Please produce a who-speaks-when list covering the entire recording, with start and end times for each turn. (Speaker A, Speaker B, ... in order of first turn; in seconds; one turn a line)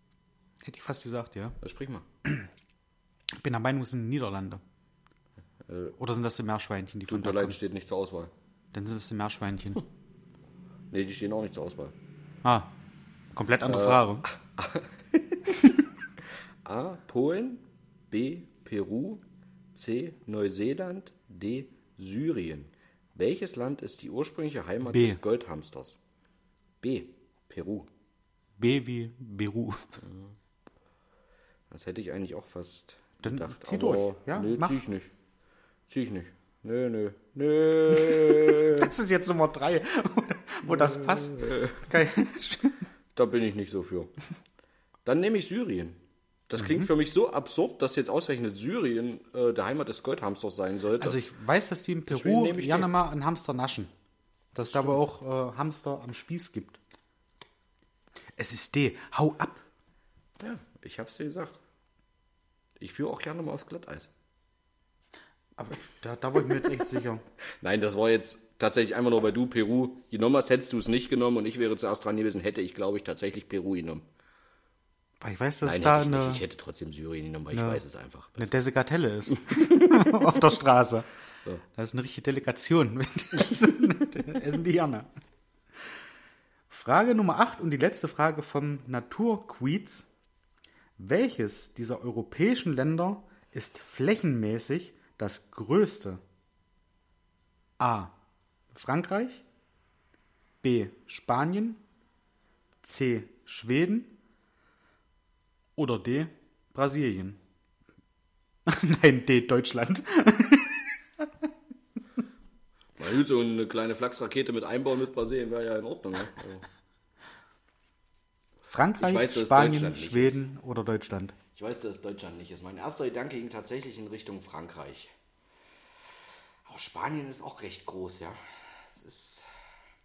Speaker A: 0.6-1.6
Speaker B: 1.6-2.0
Speaker A: 3.3-4.6
Speaker B: 5.6-6.0
Speaker A: 6.0-7.6
Speaker B: 7.1-8.3
Speaker A: 8.7-9.8
Speaker B: 10.9-11.9
Speaker A: 12.4-12.7
Speaker A: 13.3-14.2
Speaker B: 13.7-15.7
Speaker B: 16.6-19.2
Speaker B: 19.7-26.0
Speaker A: 24.8-25.2
Speaker B: 26.8-27.9
Speaker A: 28.6-30.0
Speaker B: 30.0-30.3
Speaker B: 31.7-35.1
Speaker A: 33.2-34.8
Speaker B: 35.9-38.9
Speaker A: 37.9-42.8
Speaker B: 40.6-41.9
Speaker B: 43.1-44.1
Speaker B: 45.0-51.2
Speaker A: 46.6-46.9
Speaker A: 51.0-53.9
Speaker B: 52.1-52.9
Speaker A: 54.5-56.8
Speaker B: 54.6-55.0
Speaker A: 58.4-59.6
Speaker B: 60.4-61.6
Speaker B: 62.8-64.1
Speaker A: 65.6-67.2
Speaker B: 67.6-74.0
Speaker A: 75.2-76.4
Speaker B: 75.6-78.5
Speaker A: 77.5-77.8
Speaker A: 78.4-81.1
Speaker B: 79.5-80.2
Speaker A: 81.7-85.1
Speaker A: 86.7-90.1
Speaker A: 91.0-96.2
Speaker A: 97.8-98.1
Speaker A: 98.7-99.4
Speaker A: 100.6-101.8
Speaker A: 102.8-104.1
Speaker A: 105.8-107.4
Speaker A: 108.7-111.5
Speaker B: 113.0-116.6
Speaker A: 118.7-121.3
Speaker B: 119.0-120.4
Speaker B: 121.5-125.1
Speaker B: 126.7-129.5